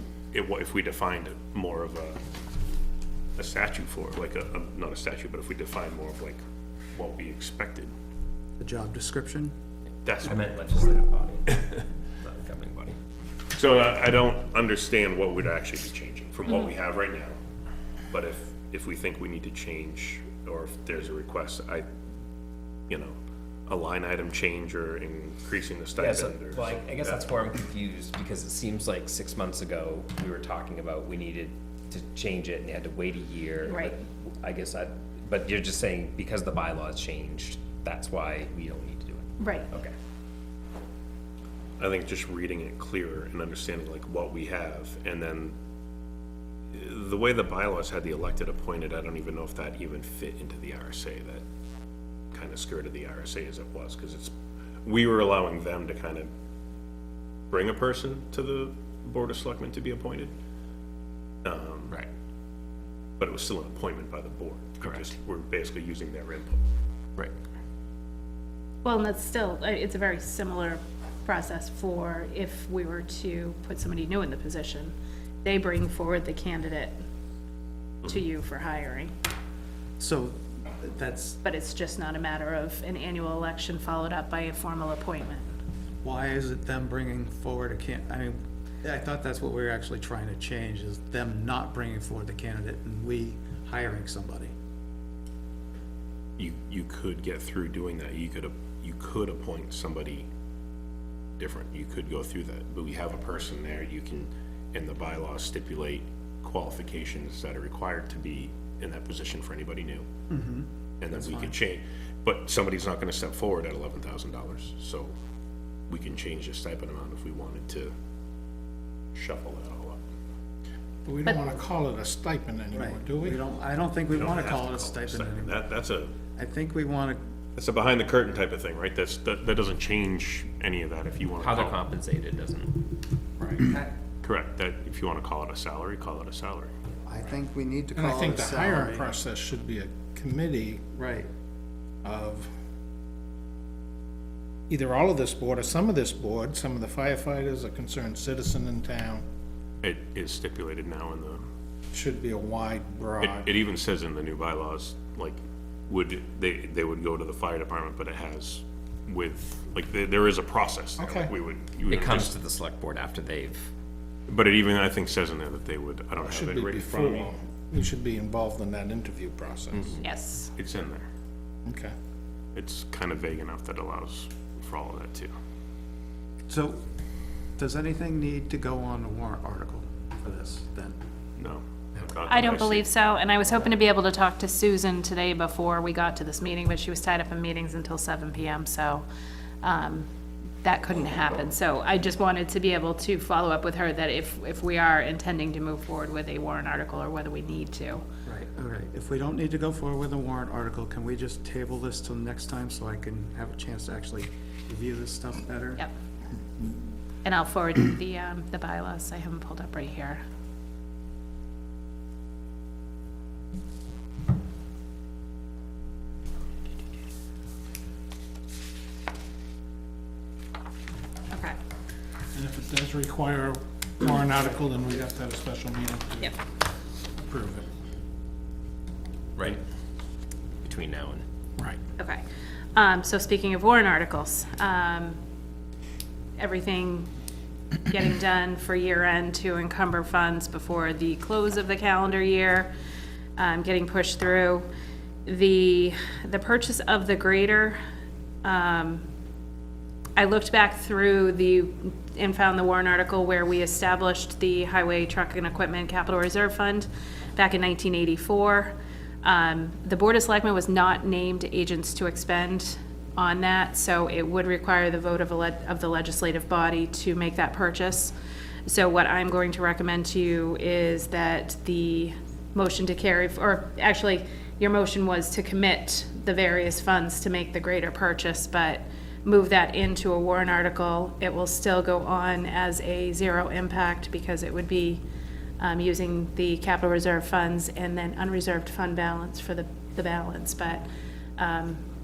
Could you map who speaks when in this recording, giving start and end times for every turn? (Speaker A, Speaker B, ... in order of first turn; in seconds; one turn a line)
Speaker A: 0.3-2.2
Speaker A: 3.4-6.4
Speaker A: 6.9-7.9
Speaker B: 8.6-9.5
Speaker A: 10.0-10.9
Speaker C: 10.3-11.5
Speaker C: 12.2-13.0
Speaker A: 13.5-17.4
Speaker A: 18.1-21.9
Speaker A: 22.9-23.1
Speaker A: 23.7-27.3
Speaker C: 25.9-39.9
Speaker D: 33.7-34.0
Speaker D: 39.4-39.7
Speaker A: 41.8-45.5
Speaker A: 46.7-51.4
Speaker A: 52.3-54.3
Speaker A: 54.8-56.3
Speaker A: 57.5-60.3
Speaker A: 61.4-61.9
Speaker A: 63.2-66.6
Speaker D: 68.8-77.0
Speaker D: 78.0-79.1
Speaker B: 80.0-81.4
Speaker D: 81.4-85.5
Speaker B: 86.0-94.5
Speaker A: 96.4-100.3
Speaker A: 101.4-110.0
Speaker B: 110.3-111.6
Speaker A: 111.0-115.1
Speaker A: 115.9-117.9
Speaker A: 119.1-120.0
Speaker E: 121.0-123.4
Speaker B: 122.7-125.5
Speaker A: 124.1-126.1
Speaker B: 126.3-127.2
Speaker A: 127.5-131.8
Speaker C: 131.4-132.7
Speaker A: 134.2-136.7
Speaker B: 137.1-139.2
Speaker E: 137.9-140.9
Speaker B: 141.0-141.3
Speaker E: 142.0-142.5
Speaker E: 144.7-149.2
Speaker A: 149.8-151.4
Speaker E: 151.9-153.5
Speaker A: 153.2-162.3
Speaker E: 161.0-161.3
Speaker C: 161.9-163.7
Speaker A: 164.3-167.3
Speaker E: 166.2-170.0
Speaker D: 170.0-170.5
Speaker A: 170.5-171.1
Speaker E: 171.7-171.9
Speaker A: 172.5-175.3
Speaker B: 176.5-176.8
Speaker B: 177.6-180.9
Speaker A: 181.4-182.9
Speaker D: 182.2-189.1
Speaker D: 189.6-190.1
Speaker D: 190.6-198.0
Speaker B: 198.2-205.8
Speaker D: 207.2-210.2
Speaker D: 221.3-221.6
Speaker E: 222.3-226.3
Speaker E: 227.2-227.7
Speaker C: 230.6-231.2
Speaker D: 232.0-232.2
Speaker D: 232.7-235.2
Speaker D: 236.4-237.1
Speaker D: 237.8-242.7
Speaker D: 243.4-244.7
Speaker D: 245.2-247.8
Speaker D: 248.4-249.0
Speaker D: 250.2-268.1
Speaker D: 268.6-285.0
Speaker D: 285.6-290.9
Speaker D: 291.4-291.8